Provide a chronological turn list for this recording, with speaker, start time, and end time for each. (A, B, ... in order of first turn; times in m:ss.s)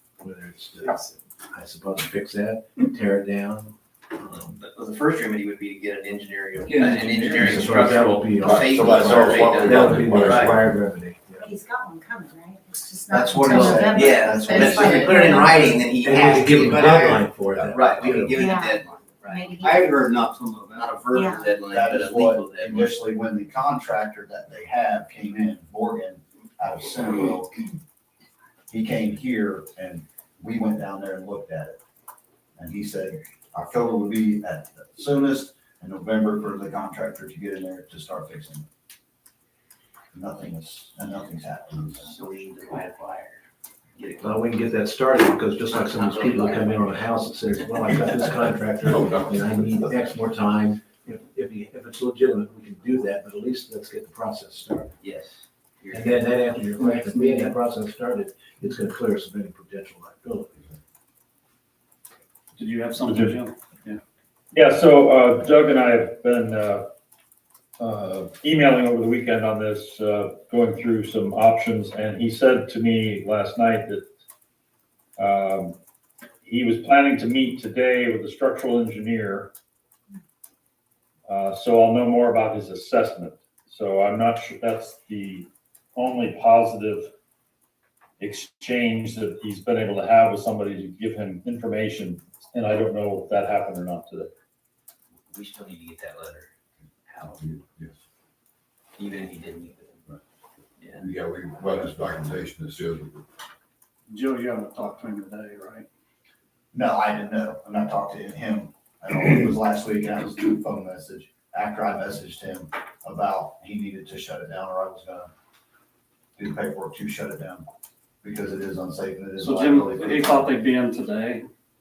0:00.2-0:04.6 A
0:04.6-0:10.6 B
0:06.6-0:07.6 C
0:07.4-0:11.5 A
0:08.4-0:10.7 D
0:11.3-0:16.2 E
0:13.1-0:19.6 B
0:13.5-0:15.4 F
0:16.0-0:18.4 A
0:18.3-0:19.9 E
0:19.6-0:21.0 C
0:20.7-0:22.9 B
0:21.1-0:21.5 E
0:21.6-0:27.5 F
0:28.7-0:31.8 F
0:32.6-0:38.6 F
0:40.1-0:42.3 F
0:41.9-0:43.4 B
0:44.0-0:44.5 B
0:44.2-0:54.9 A
0:45.7-0:47.7 B
0:48.8-0:50.1 D
0:55.0-0:56.5 B
0:55.9-1:00.6 A
0:56.8-0:57.6 C
1:02.6-1:04.0 G
1:03.1-1:03.4 H
1:04.5-1:06.9 H
1:07.8-1:14.0 H
1:15.2-1:15.8 H
1:16.4-1:19.5 H
1:21.3-1:27.1 H
1:28.2-1:34.3 H
1:35.3-1:36.5 B
1:37.0-1:37.5 B
1:37.4-1:37.9 D
1:39.0-1:40.0 B
1:40.8-1:41.1 B
1:41.0-1:43.2 D
1:44.1-1:45.8 G
1:46.7-1:55.3 F
1:56.4-1:57.6 F
1:58.2-2:00.6 F
1:59.4-2:01.4 G